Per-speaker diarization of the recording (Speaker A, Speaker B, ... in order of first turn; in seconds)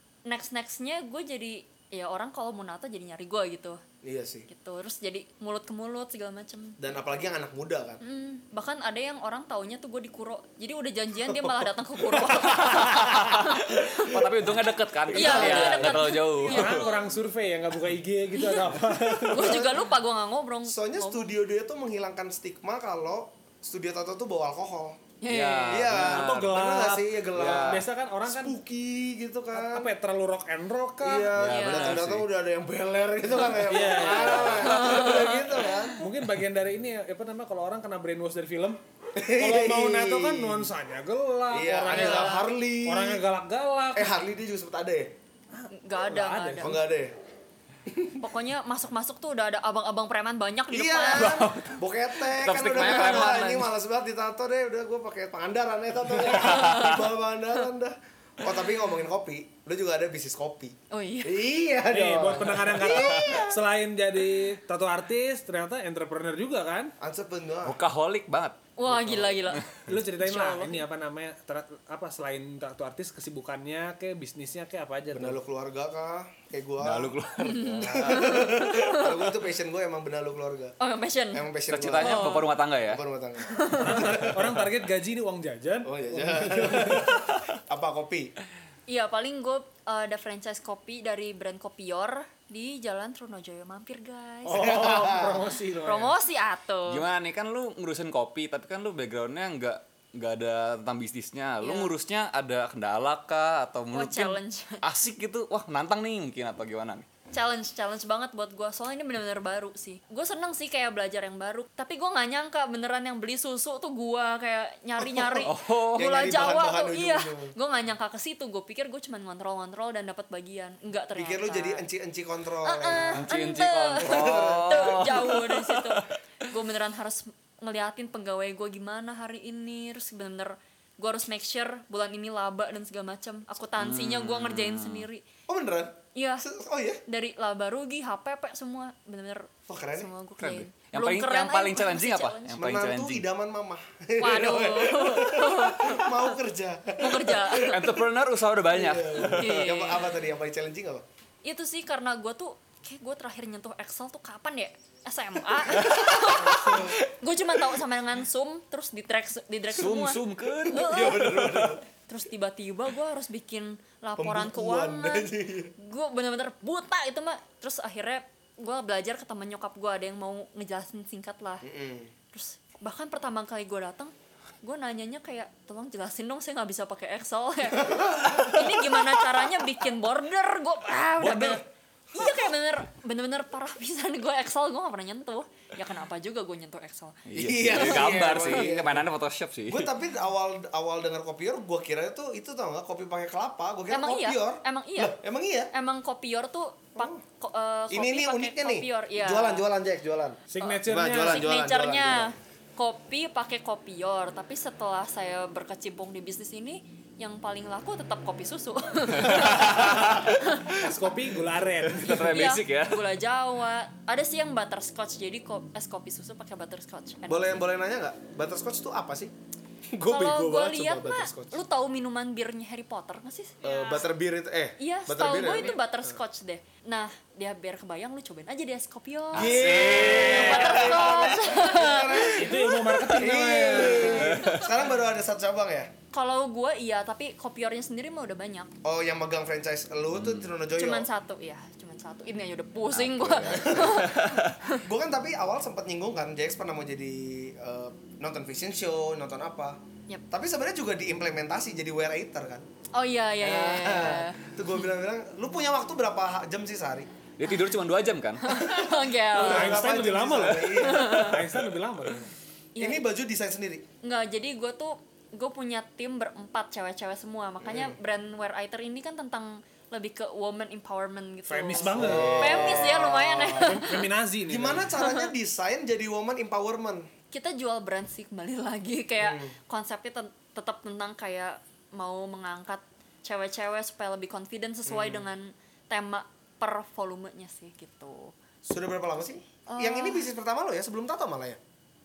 Speaker A: 0.2-3.8, 4.5-6.9, 8.0-14.2, 15.1-17.1, 18.4-21.4, 25.2-25.9, 31.4-32.0, 34.0-35.8, 41.9-42.5, 45.7-46.8, 48.2-51.5, 52.6-53.6, 56.3-57.0, 60.9-61.5, 68.8-70.8, 77.4-79.3, 80.8-81.5, 82.0-82.5, 83.5-84.1, 88.9-95.2, 95.8-97.1, 101.6-101.9, 103.9-104.8, 107.3-121.8, 122.6-135.2, 136.1-136.5, 137.1-142.8, 144.2-146.3, 147.0-147.9, 149.1-150.1, 151.4-171.6, 172.3-188.7, 193.9-195.2, 195.7-199.6, 200.6-210.8, 212.1-217.5, 220.1-224.1, 224.8-233.2, 233.8-234.7, 236.1-238.7, 240.7-244.8, 252.9-254.4, 258.4-259.9, 260.7-261.4, 262.7-263.0, 264.0-274.1, 275.0-275.3, 277.3-288.3, 289.7-290.3
Speaker B: 4.0-4.5, 6.8-8.0, 11.3-11.6, 13.8-14.4, 15.1-16.2, 19.3-19.8, 20.6-25.0, 25.6-29.9, 31.0-36.1, 39.1-40.7, 41.5-43.2, 43.9-45.1, 46.6-47.1, 47.9-48.2, 50.7-63.6, 67.0-67.8, 68.9-69.4, 75.1-80.8, 81.3-84.4, 85.8-88.3, 94.5-95.4, 115.0-117.5, 121.2-123.2, 124.0-125.3, 135.5-137.0, 139.7-140.1, 142.6-147.9, 148.7-151.0, 155.7-157.0, 160.7-161.8, 164.2-165.7, 171.6-172.1, 177.8-179.5, 181.2-181.6, 187.3-189.1, 189.7-195.7, 197.9-202.3, 217.3-219.3, 219.9-221.6, 223.6-225.8, 229.3-235.9, 238.8-241.1, 243.3-244.2, 244.7-249.8, 250.3-252.7, 253.4-257.1, 258.6-261.4, 262.8-263.8, 267.6-268.0, 271.8-273.8, 274.5-277.1, 279.2-279.5, 284.9-285.2, 288.6-291.6
Speaker C: 12.5-16.9, 25.3-26.5, 31.4-32.3, 51.1-53.7, 56.4-57.0, 62.9-63.3, 67.6-68.6, 76.8-78.5, 81.7-83.0, 96.9-107.0, 115.4-116.2, 123.1-126.0, 133.8-135.1, 140.4-143.2, 147.7-149.7, 159.7-161.8, 187.3-189.9, 209.1-210.9, 211.8-213.0, 229.3-231.2, 234.3-234.6, 240.2-240.5, 242.9-244.5, 257.4-258.6
Speaker D: 16.5-19.6, 26.0-28.6, 29.5-31.4, 33.5-34.9, 36.0-44.1, 45.5-46.7, 61.9-66.9, 69.8-75.4, 83.8-87.3, 94.4-96.1, 200.5-201.5, 209.6-209.9, 210.7-212.3, 232.2-234.4, 259.3-262.3, 271.5-272.8, 273.5-274.9